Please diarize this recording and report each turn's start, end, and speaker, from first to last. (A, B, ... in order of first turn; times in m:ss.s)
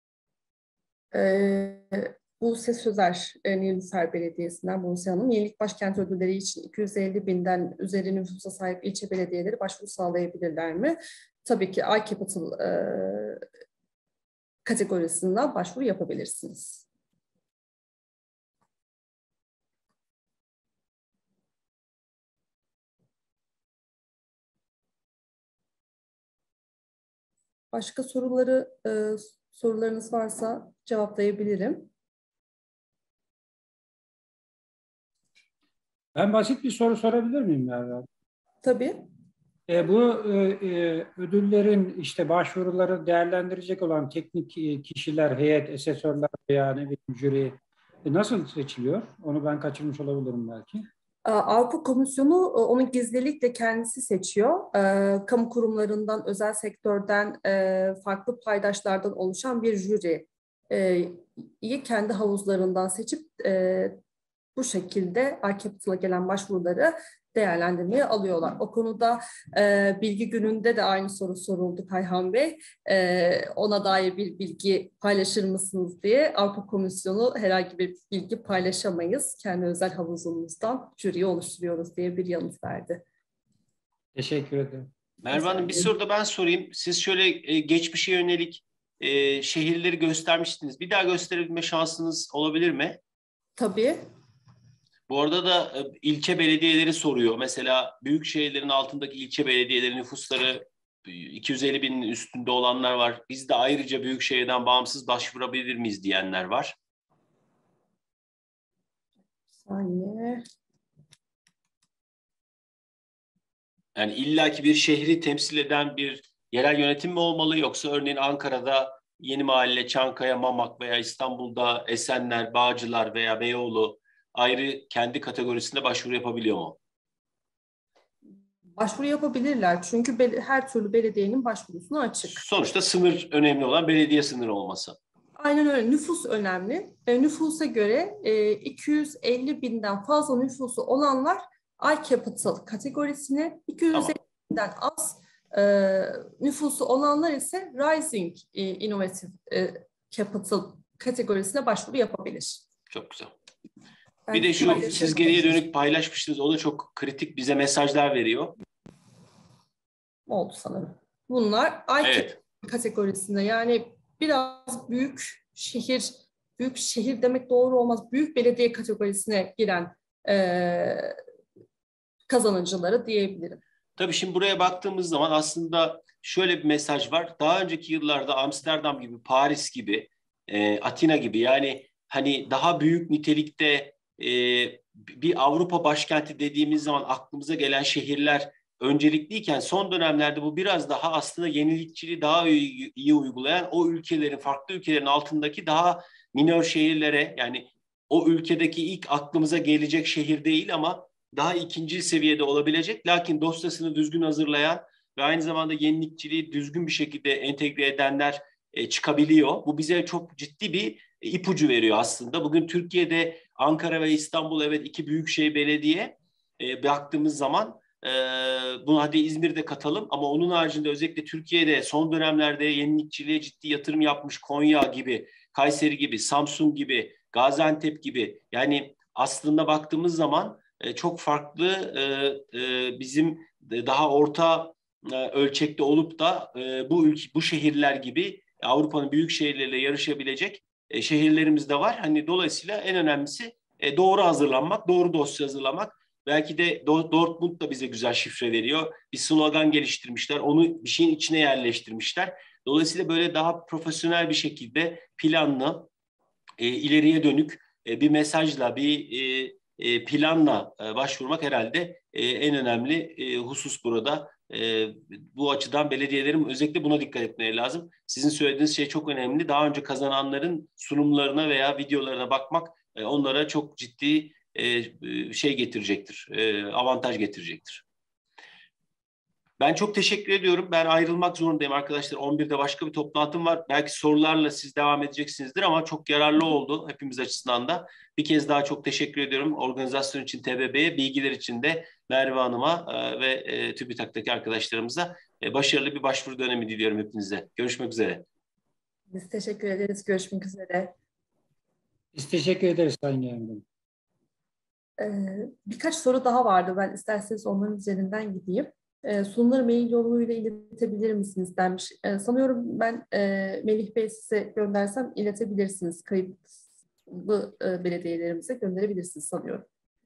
0:01.1-0:13.4 A
0:14.6-0:16.8 A
0:27.7-0:31.9 A
0:36.1-0:38.1 B
0:38.6-0:39.0 A
0:39.7-0:50.9 B
0:51.2-1:04.0 A
1:04.6-1:23.0 A
1:24.1-1:24.9 B
1:25.2-1:33.0 C
1:25.3-1:25.9 A
1:33.6-1:34.0 A
1:35.1-1:46.7 C
1:49.6-1:50.4 A
1:53.9-2:06.8 C
2:08.8-2:12.4 A
2:12.2-2:15.0 C
2:15.4-2:32.6 A
2:32.9-2:33.3 C
2:34.3-2:35.5 A
2:34.3-2:38.6 C
2:40.3-2:51.1 A
2:42.0-2:42.4 C
2:52.3-2:53.6 A
2:54.0-4:15.9 C
4:16.6-4:37.8 C
4:39.6-4:58.2 C
4:59.1-5:00.9 A
5:02.1-5:03.6 B
5:05.0-5:19.6 A